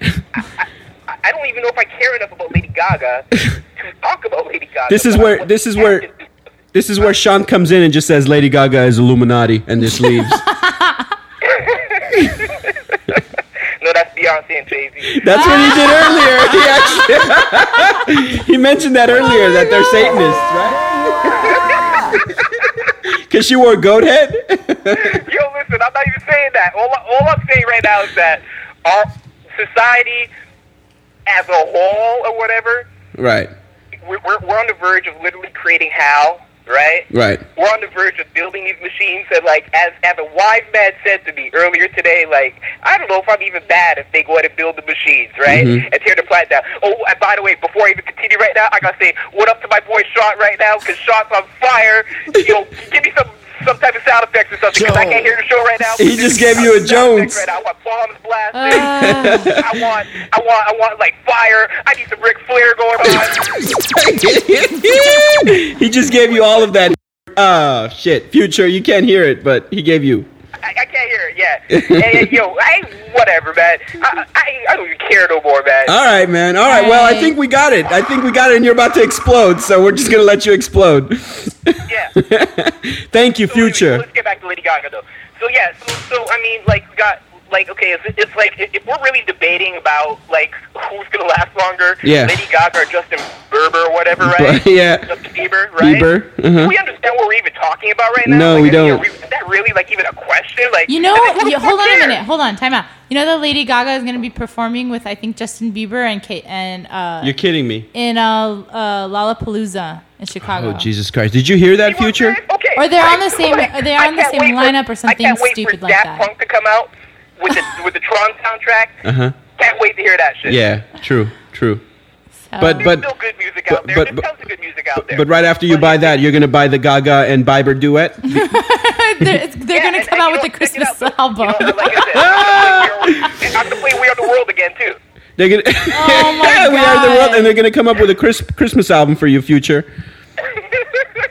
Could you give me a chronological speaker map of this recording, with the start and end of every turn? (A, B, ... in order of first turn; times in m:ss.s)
0:00.4-0:06.1 A
0:04.9-0:06.1 B
0:06.7-0:10.4 B
0:09.8-0:11.1 C
0:11.4-0:13.2 A
0:13.8-0:15.9 A
0:15.1-0:22.2 B
0:15.3-0:16.6 C
0:19.6-0:19.9 C
0:21.3-0:22.7 A
0:23.0-0:25.2 B
0:25.0-0:30.3 A
0:31.2-0:32.9 A
0:33.1-0:33.5 B
0:34.0-1:03.5 A
0:37.1-0:37.4 B
0:45.4-0:45.8 B
0:56.0-0:57.4 B
0:58.5-0:59.5 C
0:58.7-0:59.8 B
1:03.1-1:10.3 B
1:10.6-1:15.9 A
1:11.7-1:12.3 B
1:15.8-1:24.0 B
1:16.6-1:17.4 C
1:21.9-1:22.1 A
1:23.5-1:42.2 A
1:32.0-1:32.4 B
1:34.2-1:35.2 B
1:35.8-1:36.7 B
1:38.2-1:39.0 B
1:40.9-1:47.4 C
1:47.2-1:47.9 B
1:47.9-1:50.9 C
1:50.5-1:52.4 B
1:51.8-2:00.6 A
1:52.8-1:56.3 C
1:59.0-1:59.4 B
2:00.4-2:01.8 B
2:02.4-2:02.9 C
2:02.6-2:03.1 B
2:02.7-2:06.2 A
2:03.7-2:04.2 B
2:05.0-2:08.4 B
2:08.2-2:11.8 C
2:09.7-2:15.0 A
2:11.9-2:13.6 B
2:15.4-2:19.9 B
2:15.9-2:17.6 C
2:20.5-2:21.0 A